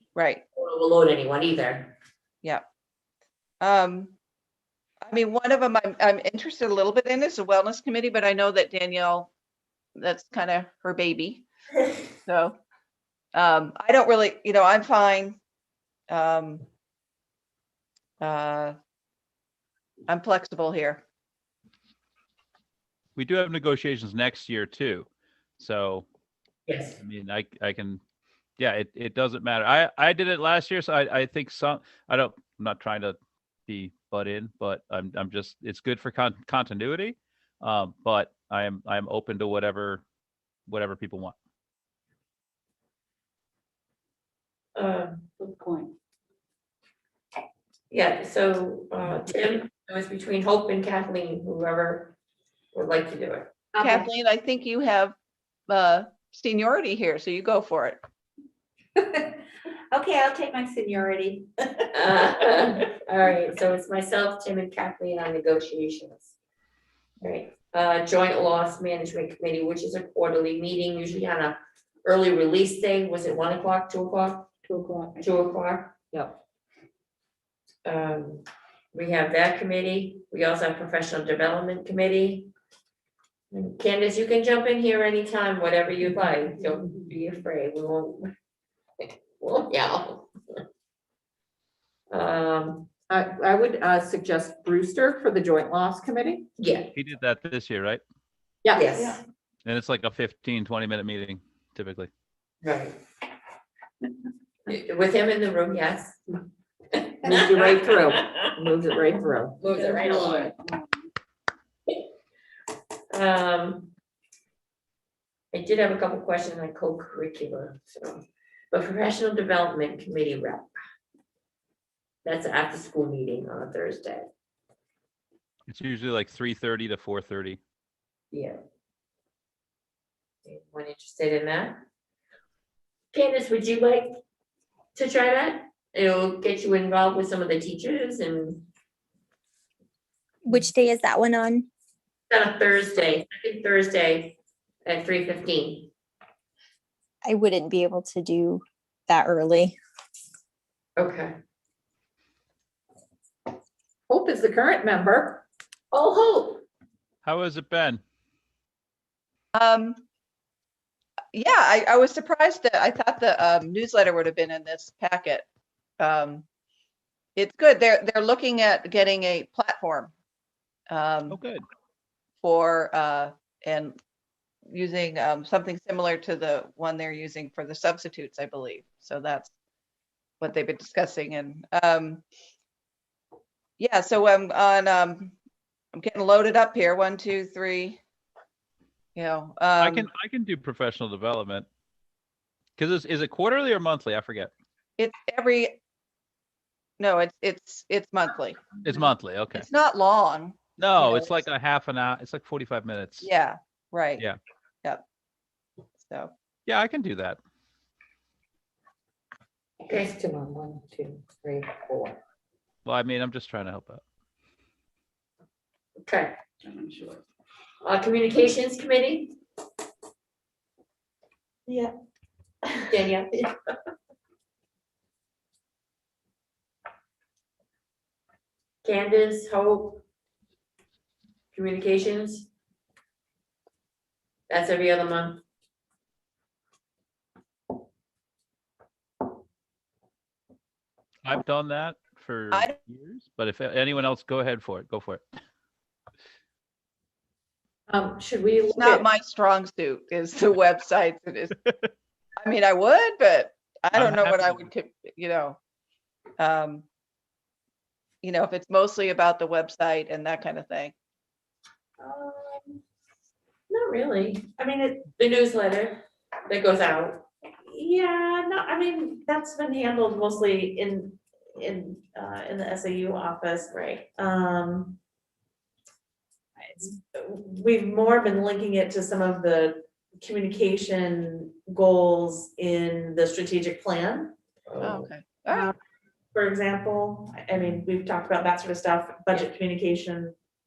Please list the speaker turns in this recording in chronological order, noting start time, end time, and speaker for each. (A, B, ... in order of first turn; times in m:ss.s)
0:00.1-0:00.4 A
0:00.6-0:01.9 B
0:03.6-0:04.1 A
0:05.0-0:09.3 A
0:10.0-0:11.5 A
0:12.2-0:12.6 A
0:13.3-0:15.4 A
0:16.1-0:16.6 A
0:18.2-0:18.8 A
0:20.1-0:21.0 A
0:23.2-0:25.1 C
0:25.6-0:26.0 C
0:26.6-0:27.0 B
0:27.0-0:28.0 C
0:28.6-0:33.2 C
0:33.7-0:40.0 C
0:40.7-0:41.3 C
0:44.8-0:45.2 B
0:45.4-0:45.9 D
0:47.9-0:52.1 B
0:52.7-0:53.5 B
0:53.8-0:55.1 A
0:55.7-0:58.0 A
1:01.9-1:06.4 B
1:07.2-1:14.5 B
1:14.6-1:15.2 D
1:15.2-1:16.0 B
1:17.8-1:22.5 B
1:23.5-1:28.3 B
1:29.4-1:30.3 B
1:32.1-1:32.9 B
1:33.1-1:36.4 D
1:36.6-1:36.9 B
1:36.9-1:38.0 C
1:38.6-1:39.2 D
1:38.7-1:39.2 B
1:39.6-1:42.1 C
1:42.6-1:43.0 B
1:44.7-1:46.2 B
1:46.9-1:48.5 B
1:47.2-1:50.7 D
1:49.6-1:50.5 B
1:53.1-1:53.9 B
1:55.5-2:00.7 B
2:02.2-2:04.3 B
2:05.7-2:07.6 C
2:08.3-2:08.6 B
2:10.4-2:11.8 B
2:13.1-2:14.1 B
2:14.9-2:18.7 B
2:20.4-2:21.7 E
2:22.3-2:25.9 B
2:27.2-2:29.8 E
2:31.0-2:31.4 B
2:34.1-2:35.4 D
2:35.9-2:36.6 B
2:37.2-2:38.0 C
2:39.5-2:40.0 A
2:41.3-2:45.4 A
2:46.0-2:46.4 A
2:47.4-2:50.1 A
2:50.9-2:51.4 A
2:51.3-2:51.6 C
2:52.4-2:54.0 A
2:54.6-2:59.5 A
3:00.4-3:02.2 A
3:03.8-3:05.3 A
3:05.9-3:08.0 A
3:09.1-3:10.1 A
3:09.8-3:11.6 C
3:12.8-3:14.5 C
3:15.0-3:15.8 A
3:17.0-3:18.6 A
3:18.8-3:19.6 C
3:19.5-3:21.4 A
3:20.8-3:23.3 C
3:23.2-3:24.2 A
3:26.0-3:26.3 A
3:26.6-3:27.4 C
3:29.9-3:30.1 B
3:32.8-3:34.0 C
3:36.0-3:36.4 B
3:36.6-3:37.2 D
3:37.8-3:39.4 B
3:41.7-3:41.9 F
3:42.6-3:43.0 F
3:42.9-3:43.4 B
3:48.8-3:50.0 B
3:51.5-3:52.5 B
3:54.5-3:55.4 B
4:01.2-4:05.2 C
4:07.9-4:09.0 D
4:08.7-4:11.6 A
4:12.4-4:15.6 A
4:13.9-4:14.7 C
4:16.4-4:16.8 A
4:18.2-4:20.9 A
4:22.0-4:22.8 F
4:23.7-4:24.5 B
4:24.6-4:25.0 F
4:25.2-4:27.2 B
4:27.7-4:35.0 F
4:33.7-4:34.0 B
4:36.6-4:44.3 F
4:44.7-4:45.1 B
4:44.8-4:45.7 A
4:46.3-4:50.3 F